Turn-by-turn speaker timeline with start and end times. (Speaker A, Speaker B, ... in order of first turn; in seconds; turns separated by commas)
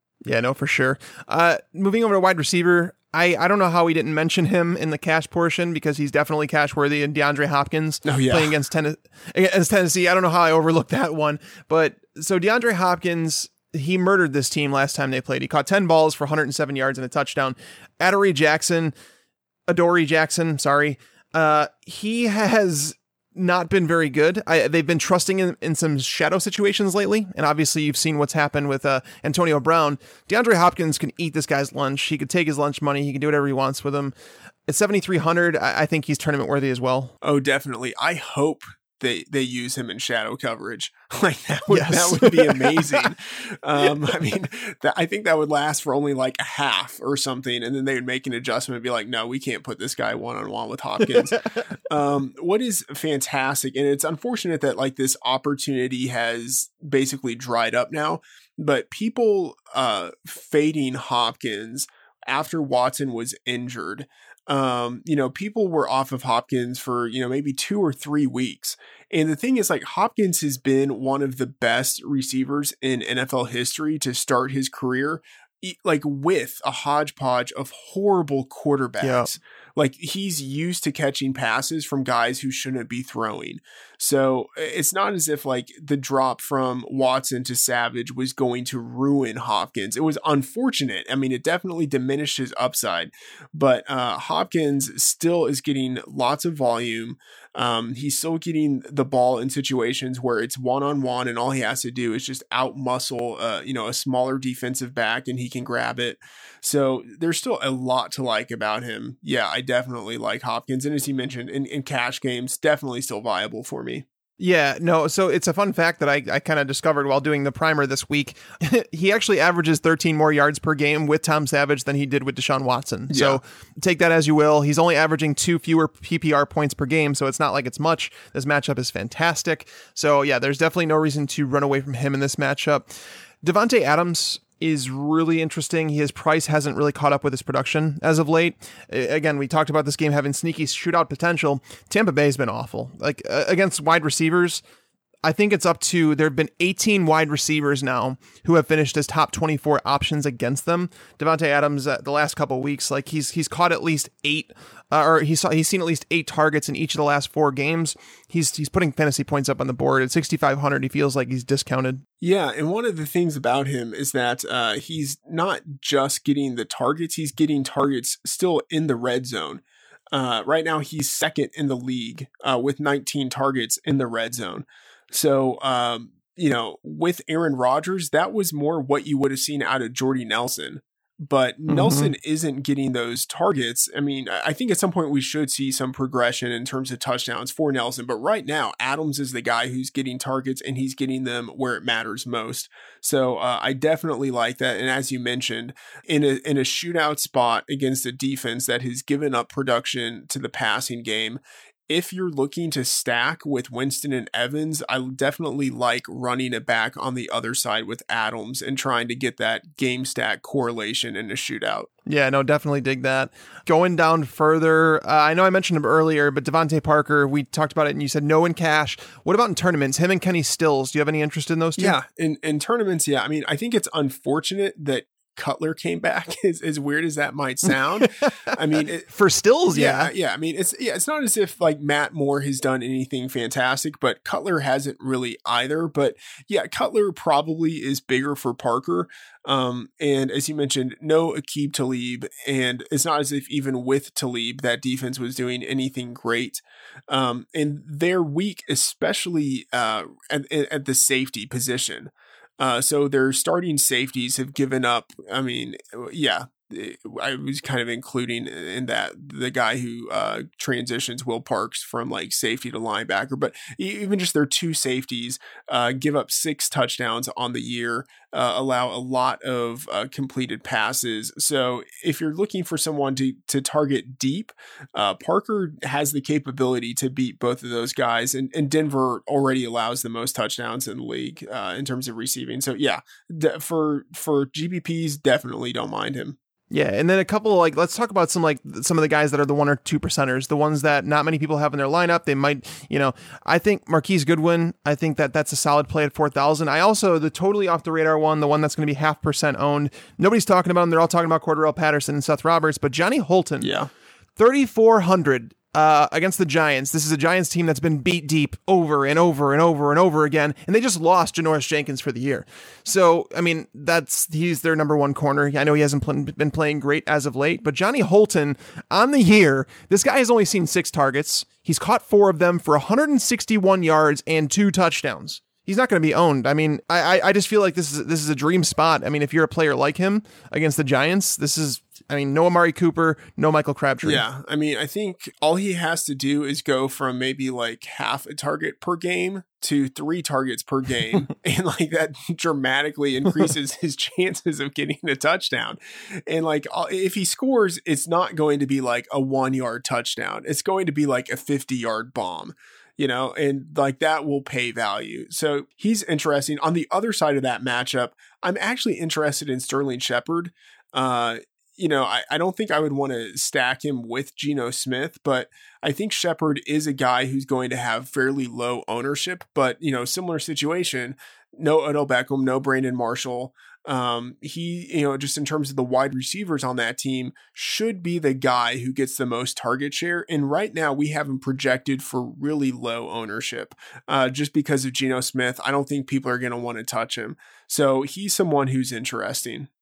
Speaker A: 0.2-18.9, Speaker B: 8.1-8.6, Speaker A: 19.7-34.1, Speaker A: 34.7-37.1, Speaker B: 37.2-114.0, Speaker A: 41.7-43.1, Speaker A: 79.0-79.3, Speaker A: 114.4-132.9, Speaker B: 123.1-123.4, Speaker A: 133.4-144.6, Speaker A: 145.2-162.0, Speaker B: 162.2-211.9, Speaker A: 181.7-182.1, Speaker A: 212.1-222.0, Speaker B: 221.8-229.1, Speaker A: 229.1-230.1, Speaker B: 229.7-286.4, Speaker A: 286.7-303.7, Speaker B: 303.6-303.9, Speaker A: 304.4-334.2, Speaker B: 334.0-389.7